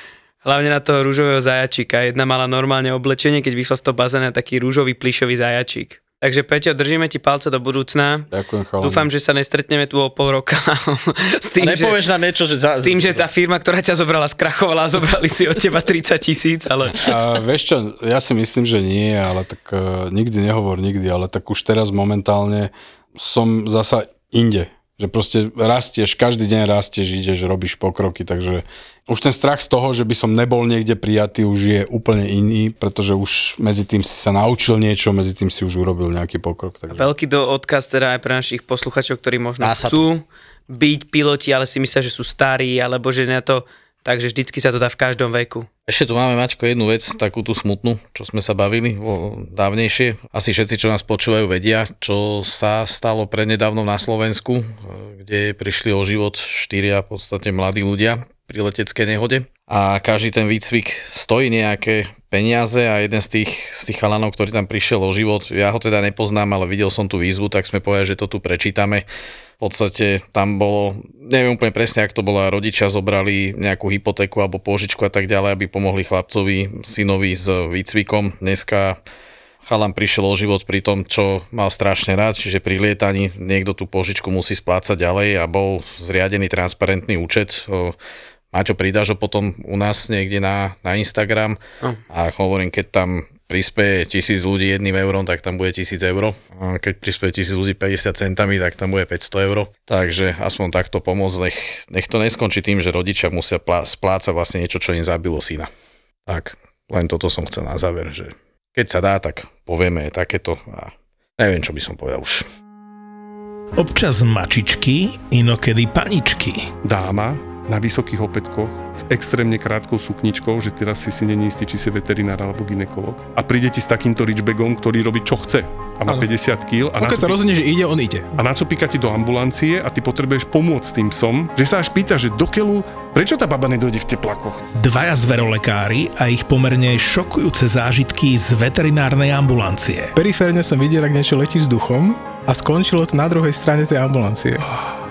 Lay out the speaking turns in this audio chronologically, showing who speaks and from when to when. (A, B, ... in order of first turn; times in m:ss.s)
0:00.4-0:08.3 A
0:08.3-0:09.1 B
0:08.8-0:12.0 A
0:11.6-0:13.3 C
0:12.8-0:17.0 A
0:17.0-0:37.1 B
0:36.9-0:45.7 A
0:39.6-0:40.0 C
0:45.9-1:09.1 C
1:09.6-1:19.0 C
1:19.6-1:28.0 C
1:28.5-1:45.7 C
1:46.3-1:52.4 C
1:53.8-1:56.7 D
1:56.8-2:07.4 E
2:07.0-2:08.3 F
2:08.4-2:14.6 E
2:14.8-2:20.1 D
2:20.2-2:24.7 F